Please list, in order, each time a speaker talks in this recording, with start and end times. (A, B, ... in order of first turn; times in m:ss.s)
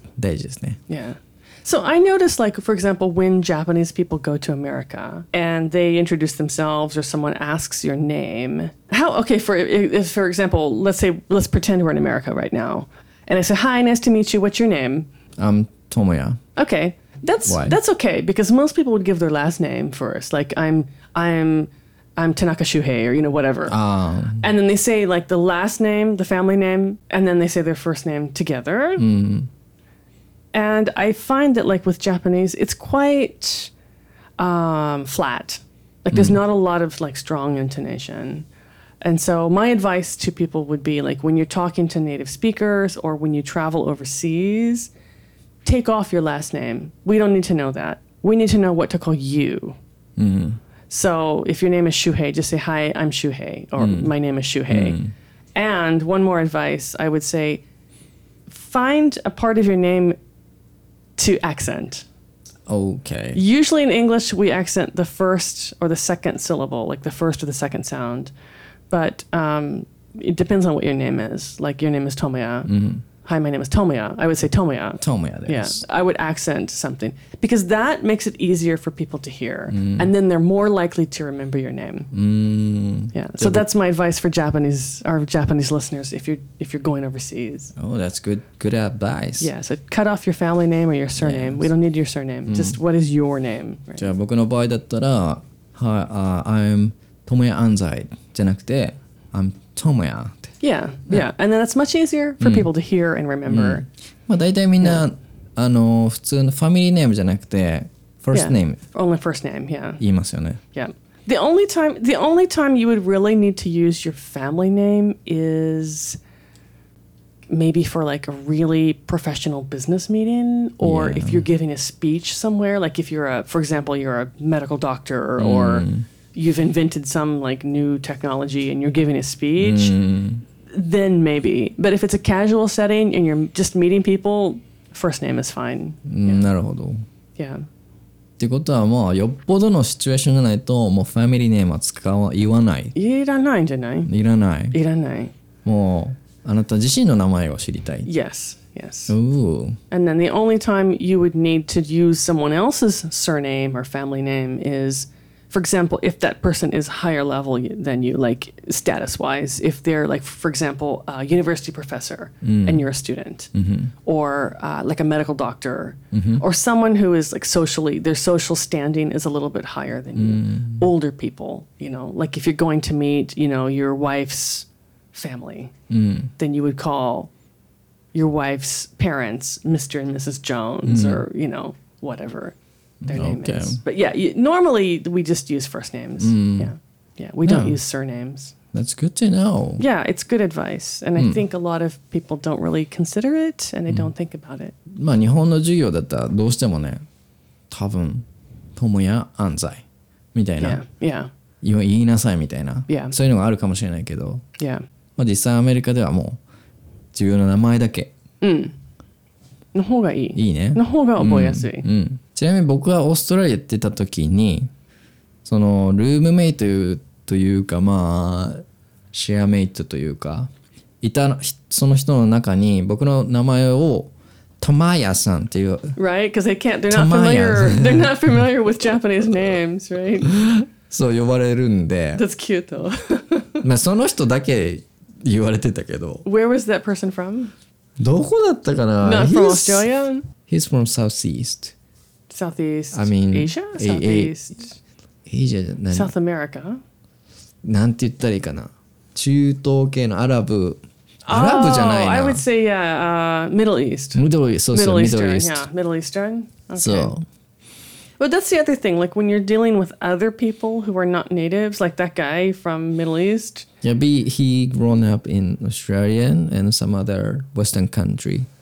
0:00.2-0:00.8 A
0:00.9-0:15.1 B
0:15.4-0:16.4 A
0:16.6-0:23.7 B
0:17.4-0:17.8 A
0:23.7-0:24.5 A
0:24.4-0:29.0 B
0:29.0-0:29.5 A
0:30.5-0:33.7 B
0:34.4-0:38.5 B
0:36.1-0:36.4 A
0:39.0-0:44.9 B
0:45.6-0:49.8 B
0:50.2-0:50.6 A
0:50.9-0:55.0 B
0:53.8-0:54.1 A
0:54.7-0:55.1 A
0:55.5-0:57.6 B
0:58.5-1:00.2 B
1:01.2-1:02.0 B
1:02.7-1:03.4 A
1:03.3-1:08.3 B
1:08.9-1:12.7 B
1:12.7-1:13.0 A
1:13.2-1:22.1 B
1:15.0-1:15.8 A
1:19.7-1:20.1 A
1:22.1-1:23.6 A
1:23.1-1:27.7 B
1:27.8-1:29.5 A
1:29.4-1:34.1 B
1:31.2-1:31.7 A
1:32.5-1:32.8 A
1:34.0-1:40.5 A
1:40.6-1:43.8 B
1:42.4-1:42.7 A
1:43.5-1:48.8 A
1:48.3-1:50.0 B
1:50.0-1:50.6 A
1:50.7-1:56.2 B
1:57.5-2:09.9 B
2:00.8-2:01.4 A
2:05.4-2:06.0 A
2:09.6-2:10.4 A
2:10.7-2:16.4 B
2:16.0-2:17.0 A
2:17.4-2:17.7 B
2:18.4-2:22.9 A
2:22.9-2:24.1 B
2:24.1-2:24.8 A
2:24.7-2:25.3 B
2:25.6-2:28.1 A
2:28.0-2:29.1 B
2:29.1-2:29.8 A
2:29.9-2:43.5 B
2:42.4-2:42.8 A
2:43.5-2:43.9 A
2:44.0-2:55.7 B
2:46.1-2:46.4 A
2:50.2-2:50.8 A
2:55.9-2:56.3 A
2:56.4-2:57.3 B
2:58.1-3:02.5 B
3:00.8-3:01.2 A
3:03.0-3:03.8 A
3:03.1-3:08.5 B
3:06.2-3:06.7 A
3:07.4-3:07.8 A
3:08.7-3:09.8 A
3:09.8-3:14.7 B
3:14.9-3:17.0 A
3:17.7-3:20.8 A
3:20.6-3:21.3 B
3:21.6-3:24.4 A
3:22.9-3:23.1 B
3:24.6-3:24.8 B
3:25.2-3:26.4 A
3:27.1-3:28.1 A
3:28.4-3:28.7 B
3:29.7-3:31.9 B
3:30.3-3:34.7 A
3:35.4-3:40.5 A
3:41.0-3:46.0 A
3:46.0-3:50.3 B
3:46.9-3:48.3 A
3:50.3-3:52.2 A
3:52.2-3:53.6 B
3:53.6-3:56.2 A
3:56.2-3:57.5 B
3:58.0-3:59.8 A
3:59.0-4:00.3 B
4:00.4-4:01.7 A
4:02.3-4:04.8 B
4:02.9-4:04.3 A
4:05.2-4:06.1 A
4:05.9-4:06.8 B
4:07.6-4:12.4 A
4:11.2-4:17.1 B
4:14.1-4:15.6 A
4:16.8-4:17.2 A
4:18.2-4:23.7 B
4:23.8-4:28.5 A